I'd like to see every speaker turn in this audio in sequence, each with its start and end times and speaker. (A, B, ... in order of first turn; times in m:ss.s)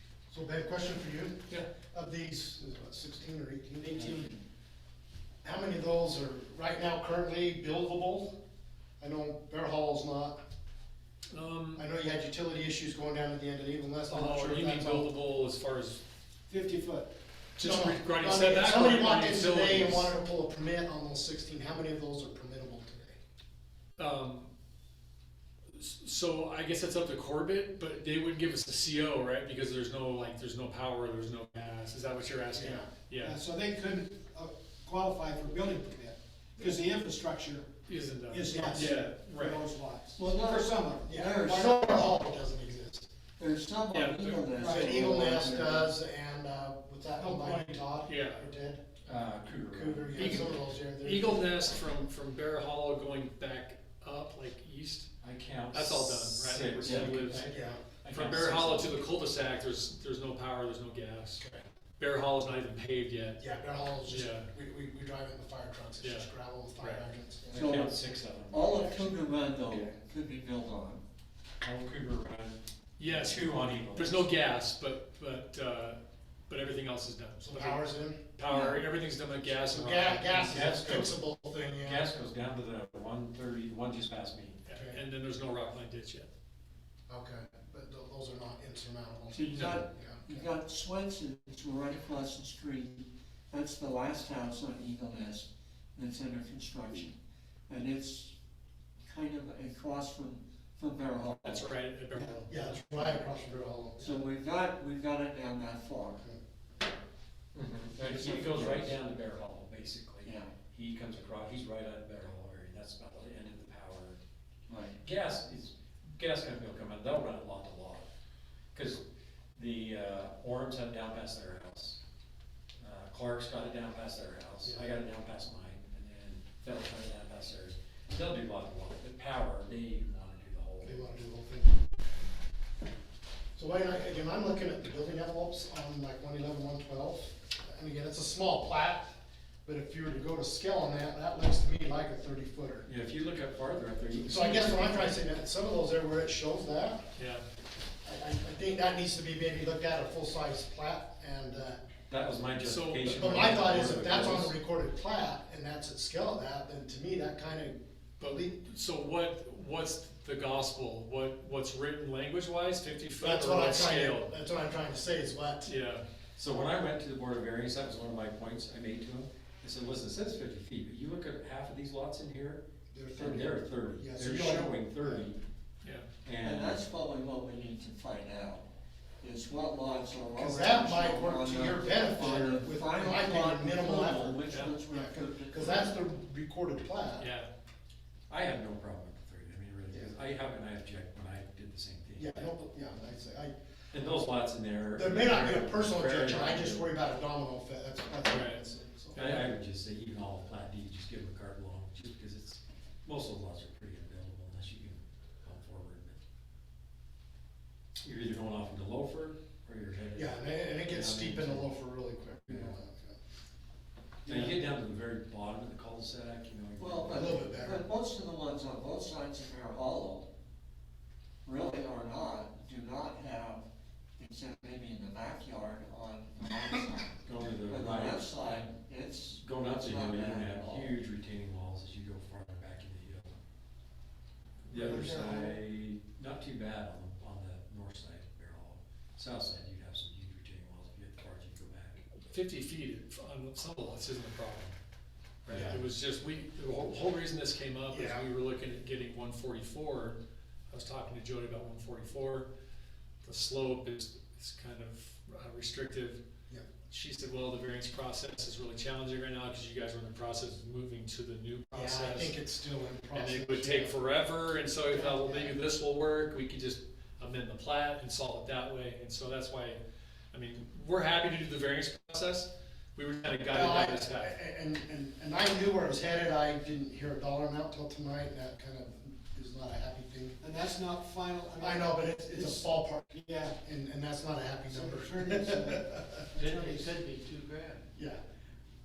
0:00.3-0:01.4 A
0:01.9-0:04.2 A
0:03.8-0:04.2 B
0:05.4-0:08.3 A
0:09.0-0:10.4 A
0:11.3-0:11.8 C
0:11.8-0:15.1 A
0:14.1-0:16.0 C
0:16.5-0:17.1 B
0:17.6-0:20.1 C
0:17.6-0:23.2 A
0:24.0-0:24.5 C
0:25.7-0:33.4 C
0:32.6-0:32.8 A
0:33.2-0:37.7 B
0:37.9-0:39.6 C
0:38.3-0:42.2 B
0:40.2-0:41.8 D
0:41.1-0:43.1 A
0:43.4-0:45.9 D
0:43.9-0:44.4 C
0:44.5-0:45.6 B
0:44.7-0:48.8 A
0:47.2-0:47.8 B
0:48.0-0:48.4 C
0:49.0-0:50.1 E
0:49.7-0:51.4 A
0:50.1-0:55.1 C
0:55.2-0:58.9 E
0:55.7-0:57.5 C
0:57.3-0:57.8 A
0:58.1-1:01.4 C
1:01.4-1:01.6 A
1:02.0-1:03.4 C
1:03.4-1:07.6 A
1:04.0-1:04.5 C
1:06.0-1:07.0 C
1:07.5-1:11.0 D
1:07.5-1:09.0 E
1:11.6-1:14.2 E
1:13.0-1:20.7 C
1:17.4-1:18.2 A
1:18.5-1:18.8 D
1:19.7-1:22.0 A
1:20.5-1:21.1 E
1:21.8-1:24.6 E
1:24.6-1:26.3 C
1:24.7-1:25.0 A
1:27.1-1:30.4 A
1:29.4-1:29.8 C
1:29.4-1:37.2 D
1:37.7-1:38.3 D
1:39.0-1:41.7 D
1:41.4-1:43.2 C
1:42.5-1:44.2 A
1:44.0-1:46.2 D
1:47.5-1:54.2 E
1:47.9-1:48.9 D
1:50.2-1:50.5 D
1:54.7-1:55.0 D
1:55.0-1:58.1 E
1:58.7-1:59.0 E
1:59.5-2:02.0 E
2:02.8-2:11.1 E
2:10.8-2:11.8 A
2:13.6-2:19.1 A
2:19.6-2:22.9 A
2:22.8-2:25.2 E
2:24.2-2:27.0 A
2:24.4-2:24.8 C
2:27.2-2:27.4 C
2:28.0-2:31.8 A
2:32.1-2:34.5 E
2:32.6-2:33.6 C
2:33.2-2:38.6 A
2:38.2-2:44.3 C
2:43.2-2:45.7 A
2:45.6-2:46.0 C
2:46.4-2:52.6 E
2:52.9-2:55.2 A
2:53.2-2:55.4 E
2:55.8-2:56.1 C
2:56.2-2:56.8 E
2:56.4-2:58.6 D
2:59.2-3:06.0 D
3:00.4-3:07.3 A
3:04.5-3:04.7 C
3:07.2-3:07.5 C
3:08.3-3:12.5 E
3:12.2-3:13.6 A
3:13.9-3:16.9 E
3:14.9-3:19.2 A
3:18.2-3:18.6 C
3:19.1-3:19.4 C
3:19.2-3:26.2 E
3:28.0-3:31.7 E
3:30.1-3:33.2 A
3:34.2-3:37.6 E
3:34.3-3:34.5 D
3:36.8-3:40.3 D
3:37.1-3:37.8 A
3:41.4-3:43.6 D
3:44.2-3:51.0 D
3:47.2-3:48.7 E
3:49.4-3:53.4 E
3:54.6-4:02.0 E
3:54.8-3:55.6 B
4:02.1-4:04.8 C
4:05.4-4:10.2 C
4:05.5-4:05.8 E
4:07.9-4:08.2 A
4:10.7-4:12.5 C
4:13.2-4:16.2 C
4:16.9-4:22.3 C
4:21.7-4:23.9 A
4:23.1-4:29.8 C
4:24.9-4:25.5 A
4:30.3-4:34.3 C
4:33.5-4:40.4 A
4:40.4-4:43.6 B
4:41.6-4:46.3 A
4:44.7-4:47.0 B
4:46.4-4:47.8 D
4:47.9-4:48.2 A